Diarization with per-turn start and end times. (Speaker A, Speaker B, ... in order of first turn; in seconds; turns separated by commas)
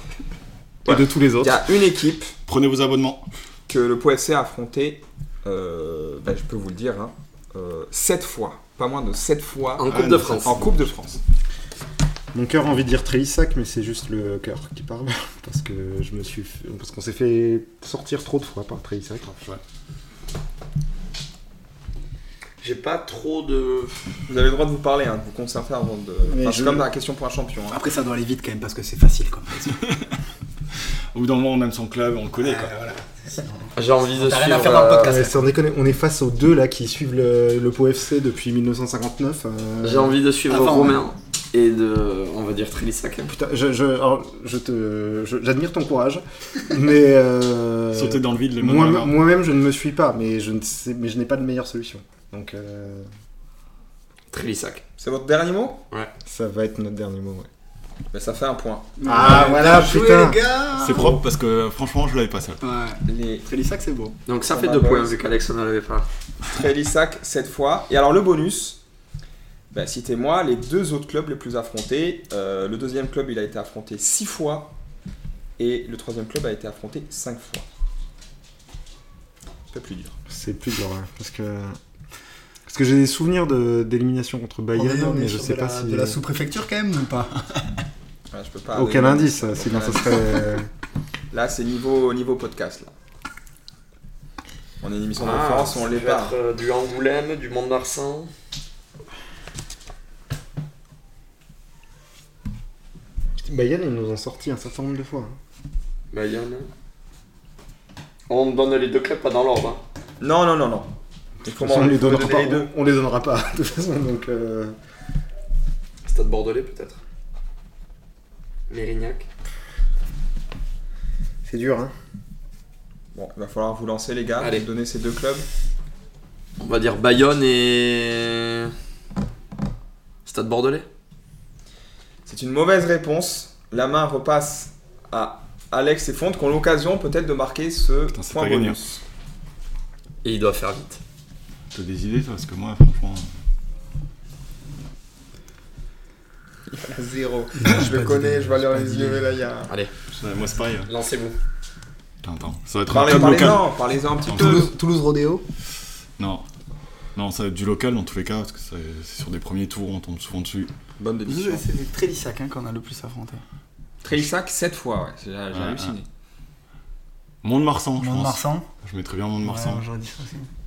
Speaker A: 0.8-1.6, Speaker B: 0.8-2.3, Speaker C: 2.5-3.2, Speaker B: 3.7-9.9, Speaker D: 9.8-10.7, Speaker C: 9.8-10.9, Speaker B: 10.4-11.2, Speaker A: 12.3-19.3, Speaker C: 19.2-19.6, Speaker D: 22.6-24.0, Speaker B: 24.3-27.8, Speaker A: 26.2-26.9, Speaker E: 27.7-29.7, Speaker C: 29.7-30.0, Speaker C: 31.1-32.7, Speaker E: 32.4-35.3, Speaker D: 33.7-35.2, Speaker A: 35.0-40.2, Speaker D: 39.8-43.3, Speaker E: 40.5-41.0, Speaker A: 43.3-53.1, Speaker C: 47.9-49.2, Speaker D: 54.3-54.8, Speaker B: 55.0-55.8, Speaker A: 56.2-57.5, Speaker B: 58.1-58.9, Speaker E: 59.0-61.2, Speaker A: 59.0-60.4, Speaker C: 60.7-62.6, Speaker E: 62.6-64.2, Speaker B: 63.0-63.5, Speaker D: 64.2-66.0, Speaker B: 64.4-65.1, Speaker B: 66.5-68.8, Speaker B: 69.7-74.7, Speaker B: 75.6-77.7, Speaker B: 79.7-80.1, Speaker A: 80.3-81.8, Speaker A: 82.7-86.2, Speaker E: 84.7-87.8, Speaker B: 88.3-90.4, Speaker A: 88.7-90.7, Speaker B: 91.3-92.9, Speaker B: 94.8-96.3, Speaker D: 95.2-98.3, Speaker A: 103.4-105.4, Speaker D: 106.1-106.7, Speaker D: 108.3-109.8, Speaker B: 110.2-110.9, Speaker B: 111.4-112.6, Speaker A: 111.4-114.7, Speaker D: 116.0-117.0, Speaker D: 118.7-119.3, Speaker A: 121.4-121.9, Speaker B: 123.1-125.5, Speaker D: 124.4-124.7, Speaker D: 126.6-128.7, Speaker D: 130.2-130.8, Speaker B: 132.2-139.0, Speaker C: 138.1-138.8, Speaker D: 140.2-141.0, Speaker C: 141.7-143.3, Speaker B: 146.7-149.7, Speaker E: 147.6-149.4, Speaker C: 150.1-150.9, Speaker D: 150.8-151.4, Speaker C: 152.2-153.7, Speaker B: 152.9-154.7, Speaker E: 153.1-153.5, Speaker C: 154.3-154.7, Speaker E: 154.3-155.4, Speaker C: 156.2-156.4, Speaker C: 157.1-160.7, Speaker B: 161.0-161.6, Speaker E: 161.2-163.4, Speaker B: 164.0-166.1, Speaker C: 165.5-165.9, Speaker C: 167.4-169.8, Speaker E: 168.0-168.6, Speaker E: 169.4-170.5